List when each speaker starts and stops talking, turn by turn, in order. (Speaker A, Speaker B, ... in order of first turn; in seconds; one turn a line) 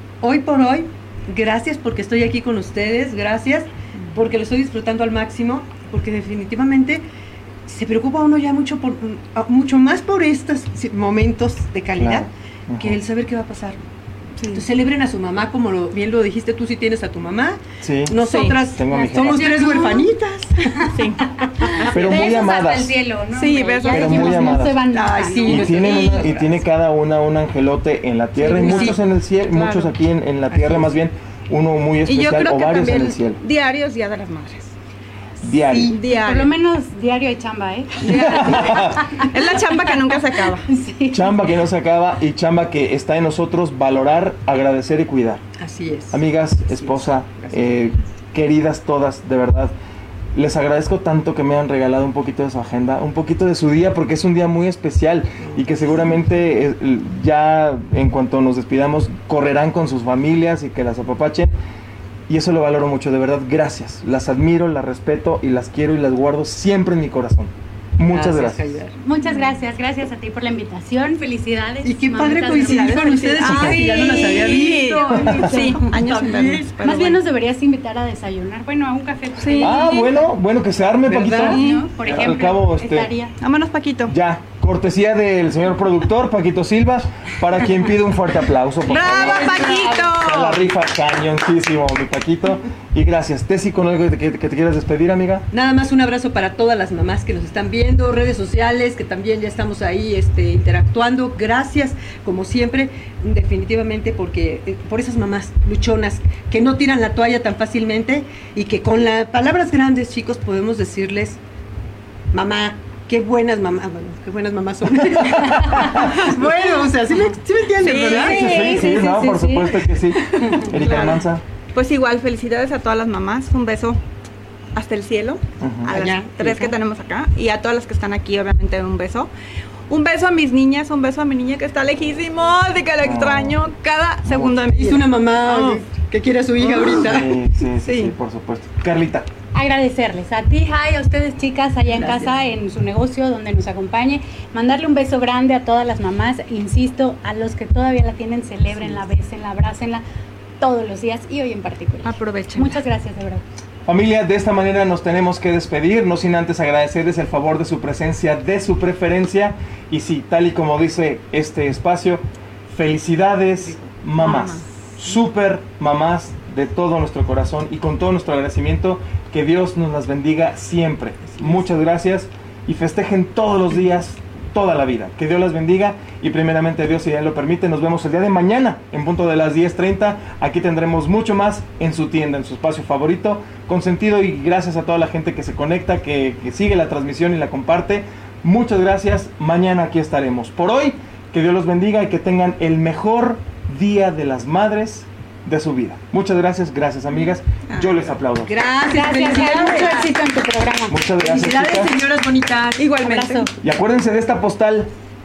Speaker A: 0.2-7.0
Speaker A: 7.7-13.8
Speaker B: 12.0-13.0
Speaker A: 14.5-20.8
Speaker B: 17.8-19.6
Speaker C: 18.2-18.6
Speaker D: 18.9-20.1
Speaker D: 20.8-26.1
Speaker C: 20.8-22.0
Speaker A: 21.9-22.3
Speaker B: 21.9-23.0
Speaker C: 23.3-24.6
Speaker B: 23.8-24.8
Speaker A: 24.9-26.6
Speaker B: 25.4-33.4
Speaker A: 28.4-29.0
Speaker C: 28.5-29.9
Speaker A: 30.5-30.9
Speaker C: 32.0-34.7
Speaker B: 35.4-36.0
Speaker A: 35.6-36.0
Speaker C: 35.9-36.5
Speaker D: 36.0-39.8
Speaker A: 38.0-38.8
Speaker B: 38.3-39.0
Speaker C: 39.1-40.6
Speaker D: 40.7-41.4
Speaker B: 41.1-45.4
Speaker A: 45.6-47.7
Speaker B: 46.1-49.7
Speaker B: 50.4-61.5
Speaker B: 62.3-68.8
Speaker A: 68.1-69.0
Speaker D: 69.0-76.0
Speaker A: 71.8-76.7
Speaker C: 72.6-77.2
Speaker D: 76.8-80.2
Speaker C: 79.4-80.1
Speaker B: 79.6-83.1
Speaker A: 81.1-81.6
Speaker D: 81.2-83.3
Speaker C: 81.4-81.8
Speaker C: 83.4-84.1
Speaker B: 84.1-95.5
Speaker C: 88.9-90.6
Speaker A: 89.0-90.1
Speaker A: 95.5-111.4
Speaker A: 112.3-119.0
Speaker C: 117.8-119.1
Speaker B: 118.0-121.4
Speaker D: 118.3-119.9
Speaker C: 120.7-124.0
Speaker C: 124.7-129.3
Speaker B: 125.6-126.0
Speaker A: 125.9-126.8
Speaker C: 129.9-135.8
Speaker B: 133.0-133.6
Speaker A: 134.3-138.1
Speaker B: 136.8-139.3
Speaker D: 139.5-150.1
Speaker A: 141.9-142.3
Speaker D: 150.6-153.4
Speaker C: 152.0-152.8
Speaker B: 153.9-198.5
Speaker C: 164.2-164.6
Speaker A: 198.4-200.2
Speaker D: 198.9-201.0
Speaker B: 200.9-201.9
Speaker A: 201.2-203.0
Speaker C: 202.8-203.5
Speaker D: 203.0-203.5
Speaker B: 203.6-204.9